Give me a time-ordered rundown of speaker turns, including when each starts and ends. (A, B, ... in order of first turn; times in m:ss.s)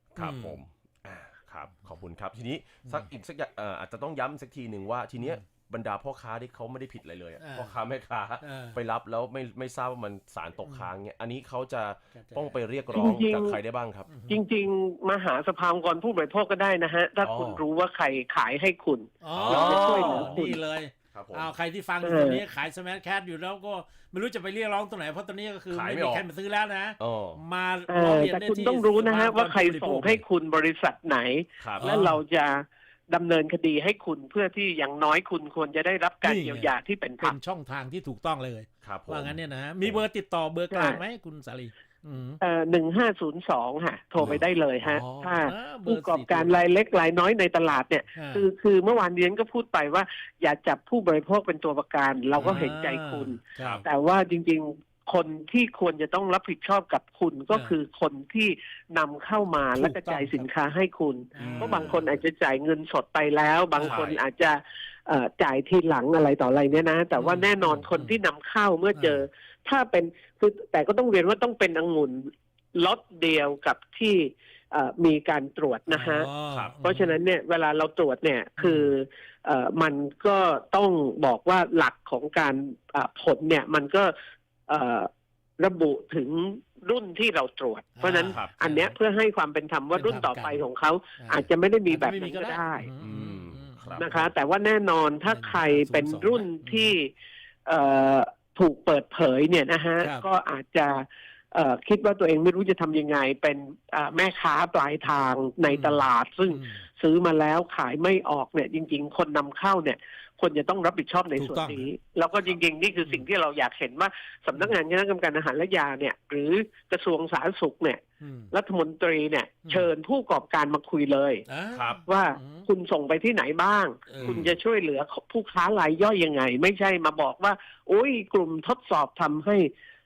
0:00.1-0:14.1 A
0:00.2-0:00.6 B
0:07.4-0:07.7 B
0:08.4-0:08.8 B
0:10.6-0:10.9 B
0:12.2-0:13.0 B
0:12.9-0:13.6 C
0:14.1-0:14.4 B
0:14.3-0:20.6 C
0:17.2-0:17.6 A
0:19.2-0:30.2 B
0:19.3-0:20.6 A
0:21.1-0:21.5 A
0:22.0-0:22.4 C
0:25.7-0:26.2 A
0:27.0-0:27.4 A
0:27.9-0:37.4 C
0:31.6-0:32.0 A
0:31.8-0:32.2 B
0:36.2-0:42.4 B
0:38.8-0:40.0 A
0:40.7-0:41.0 C
0:42.4-1:16.3 C
0:44.2-0:46.6 B
0:48.1-0:48.4 B
0:52.4-0:53.7 B
0:53.5-0:53.8 A
0:57.5-0:57.8 B
0:59.6-1:00.4 B
1:01.3-1:02.2 B
1:01.4-1:02.0 A
1:03.7-1:04.1 B
1:03.8-1:04.2 A
1:07.1-1:08.2 B
1:08.9-1:09.2 B
1:15.9-1:17.2 B
1:16.5-1:16.8 A
1:16.8-1:24.1 C
1:18.6-1:18.9 B
1:24.7-1:25.1 C
1:25.6-1:32.9 C
1:28.0-1:28.9 B
1:28.2-1:28.5 A
1:29.9-1:30.6 B
1:31.2-1:34.3 B
1:33.0-1:34.3 A
1:34.0-1:37.1 C
1:35.3-1:36.9 B
1:37.6-2:01.4 C
1:40.0-1:40.3 B
1:45.7-1:46.8 B
1:51.3-1:51.9 B
1:58.2-1:58.5 B
2:01.4-2:02.6 B
2:01.7-2:02.0 A
2:02.0-2:09.7 C
2:04.1-2:04.4 B
2:04.2-2:04.6 A